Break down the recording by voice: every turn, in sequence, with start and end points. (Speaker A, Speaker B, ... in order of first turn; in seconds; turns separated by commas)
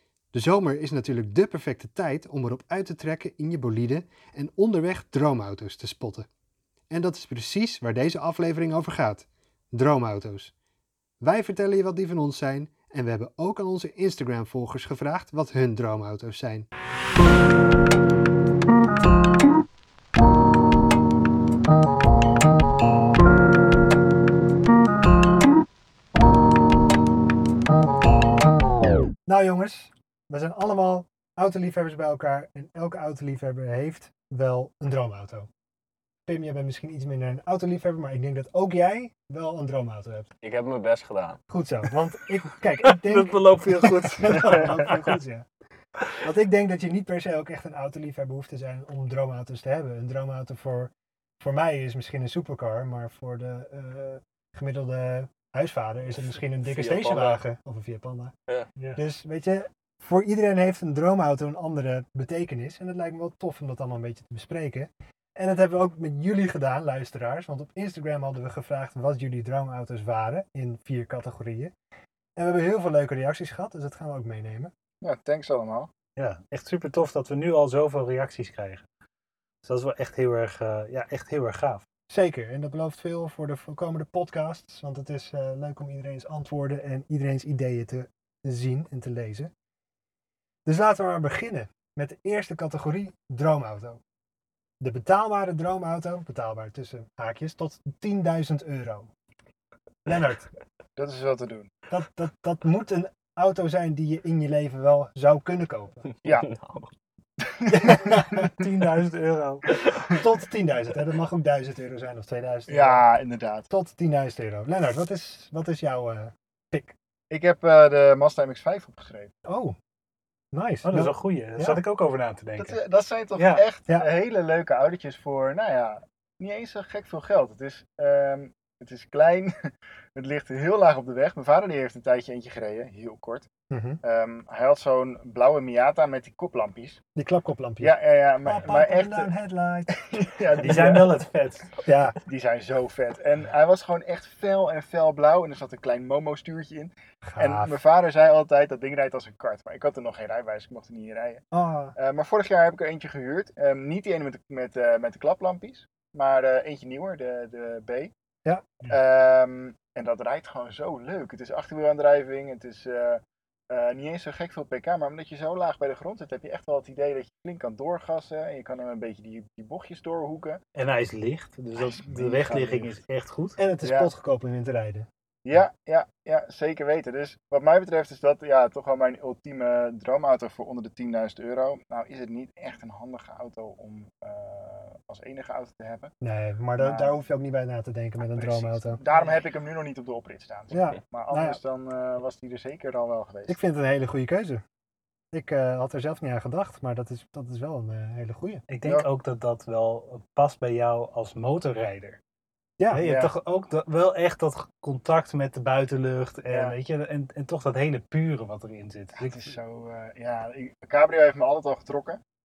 Speaker A: 0.3-6.3, Speaker A: 6.9-10.5, Speaker A: 11.2-16.7, Speaker A: 29.2-35.5, Speaker A: 36.2-40.3, Speaker B: 40.4-41.4, Speaker A: 41.5-45.5, Speaker C: 42.8-45.1, Speaker A: 46.2-58.3, Speaker B: 56.4-57.4, Speaker A: 59.0-71.7, Speaker A: 72.4-74.7, Speaker D: 75.0-75.9, Speaker C: 76.2-78.8, Speaker C: 79.6-81.8, Speaker A: 82.1-89.5, Speaker A: 90.7-94.0, Speaker A: 94.8-99.1, Speaker A: 100.0-100.5, Speaker D: 101.0-101.7, Speaker A: 101.9-106.0, Speaker D: 106.2-106.5, Speaker B: 106.3-106.9, Speaker D: 107.4-108.6, Speaker A: 107.7-108.5, Speaker C: 108.6-109.8, Speaker A: 110.1-113.0, Speaker D: 112.7-113.7, Speaker A: 113.7-116.9, Speaker D: 117.3-119.3, Speaker A: 119.4-119.7, Speaker A: 120.5-121.8, Speaker C: 120.8-122.8, Speaker D: 122.6-133.5, Speaker C: 123.3-123.6, Speaker A: 133.7-134.0, Speaker D: 134.0-137.0, Speaker A: 137.2-139.9, Speaker D: 137.8-139.3, Speaker D: 140.1-141.2, Speaker C: 140.6-141.7, Speaker A: 141.8-142.2, Speaker D: 142.2-151.4, Speaker A: 147.2-147.8, Speaker A: 151.5-151.9, Speaker D: 151.9-158.1, Speaker A: 158.4-158.8, Speaker D: 158.8-170.6, Speaker C: 170.8-173.6, Speaker D: 171.8-173.0, Speaker A: 173.6-175.1, Speaker D: 173.8-174.1, Speaker D: 175.4-186.1, Speaker A: 186.2-189.0, Speaker D: 186.8-187.1, Speaker D: 188.2-193.6, Speaker C: 189.1-189.4, Speaker A: 190.7-191.6, Speaker A: 193.5-194.6, Speaker A: 195.3-198.6, Speaker C: 198.7-202.2, Speaker C: 202.9-209.5, Speaker D: 203.0-203.3, Speaker D: 206.5-206.8, Speaker D: 209.2-212.2